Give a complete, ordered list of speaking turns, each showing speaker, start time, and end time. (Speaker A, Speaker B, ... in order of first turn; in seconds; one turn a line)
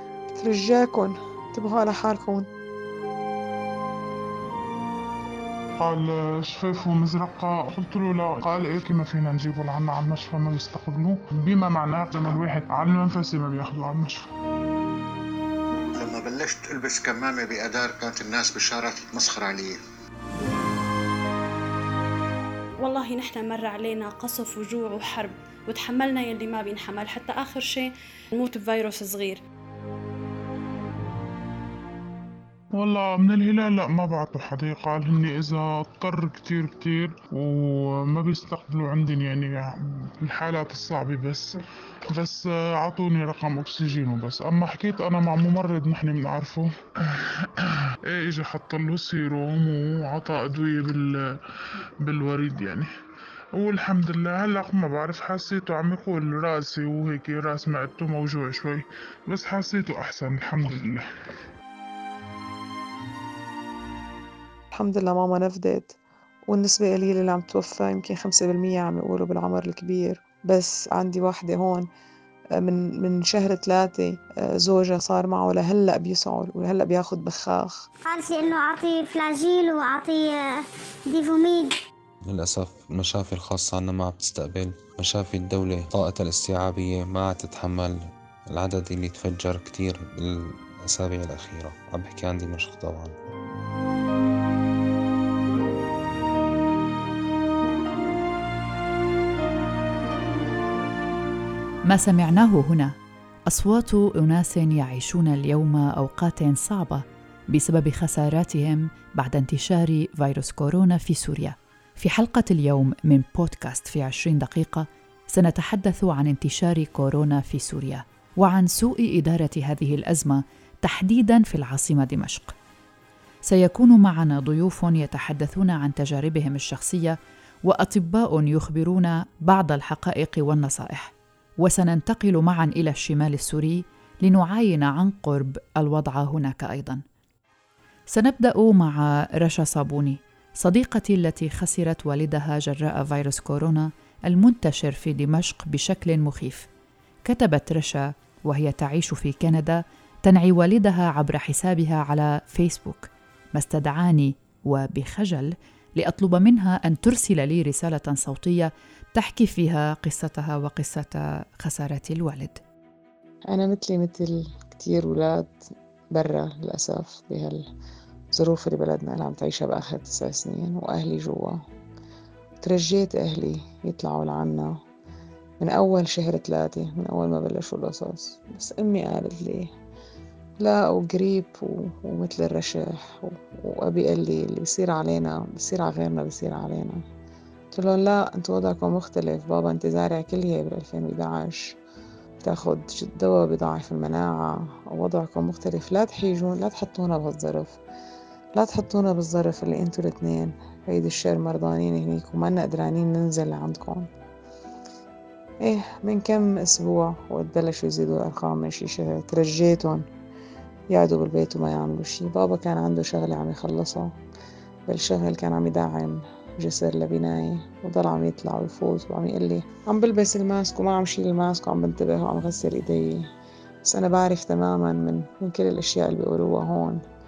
Speaker A: 0.3-2.5
Speaker B: 5.8-14.2
Speaker C: 16.0-19.8
Speaker D: 22.8-29.4
Speaker B: 32.8-41.5
Speaker B: 42.1-51.3
Speaker B: 52.0-52.9
Speaker B: 53.5-61.0
Speaker A: 64.7-66.0
Speaker A: 66.5-71.9
Speaker A: 72.6-77.9
Speaker E: 78.0-81.8
Speaker F: 82.2-88.0
Speaker F: 88.5-93.2
Speaker G: 101.9-103.0
Speaker G: 103.5-122.5
Speaker G: 123.5-137.0
Speaker G: 138.1-146.7
Speaker G: 147.2-162.6
Speaker A: 163.5-167.7
Speaker A: 168.3-171.6
Speaker A: 172.6-174.8
Speaker A: 175.6-179.7
Speaker A: 180.6-187.0
Speaker A: 187.7-191.7
Speaker A: 192.4-197.8
Speaker A: 198.6-204.1
Speaker A: 205.6-210.1
Speaker A: 210.9-214.1
Speaker A: 214.9-223.3
Speaker A: 223.8-227.0